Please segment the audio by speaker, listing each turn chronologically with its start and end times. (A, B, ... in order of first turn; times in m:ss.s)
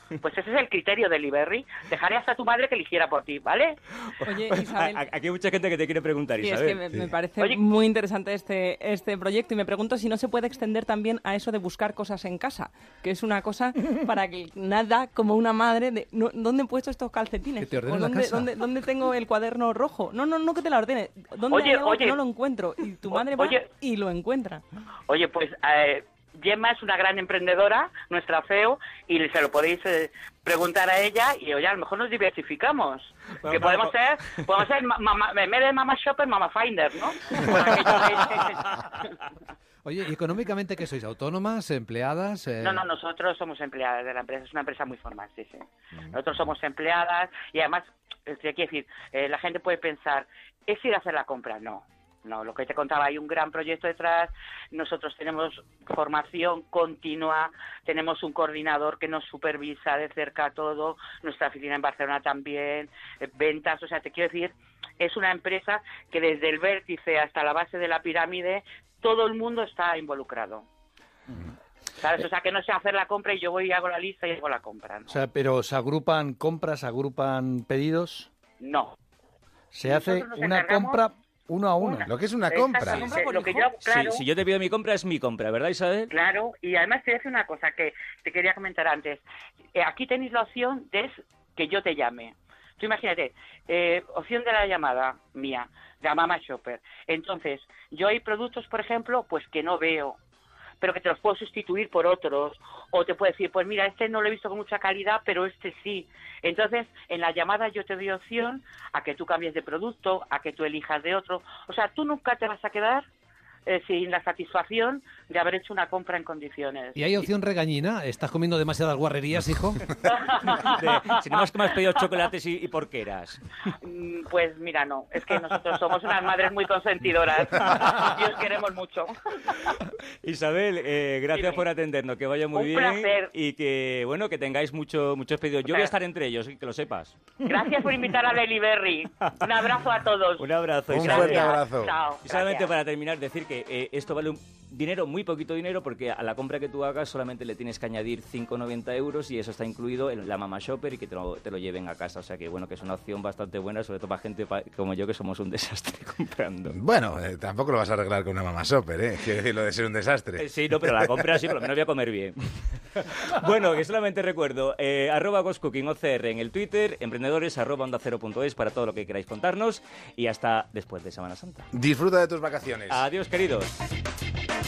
0:00.2-0:03.8 A
0:04.1-0:06.8 B
0:04.2-0:05.1 C
0:06.4-0:24.6 C
0:17.6-0:18.5 D
0:21.5-0:22.2 A
0:23.3-0:23.6 A
0:25.1-0:39.1 A
0:39.8-0:42.8 D
0:42.6-1:10.6 A
1:12.0-1:15.2 A
1:15.1-1:18.3 E
1:18.6-1:18.9 A
1:19.7-1:22.1 E
1:19.8-1:21.0 A
1:21.8-1:24.2 A
1:22.1-1:23.2 F
1:23.0-1:23.4 D
1:23.8-1:26.1 B
1:26.1-1:29.2 A
1:29.8-1:40.2 A
1:40.8-1:53.0 A
1:53.7-1:57.0 A
1:57.0-1:59.8 D
2:00.0-2:01.1 A
2:00.6-2:03.4 B
2:03.8-2:09.1 A
2:07.6-2:08.2 B
2:09.4-2:17.2 B
2:11.3-2:11.6 A
2:12.5-2:13.3 A
2:17.4-2:20.4 A
2:20.4-2:21.5 B
2:20.9-2:21.9 F
2:21.0-2:22.7 A
2:22.2-2:36.8 B
2:36.7-2:40.5 F
2:40.4-2:51.7 B
2:51.7-2:53.0 F
2:52.9-2:53.7 B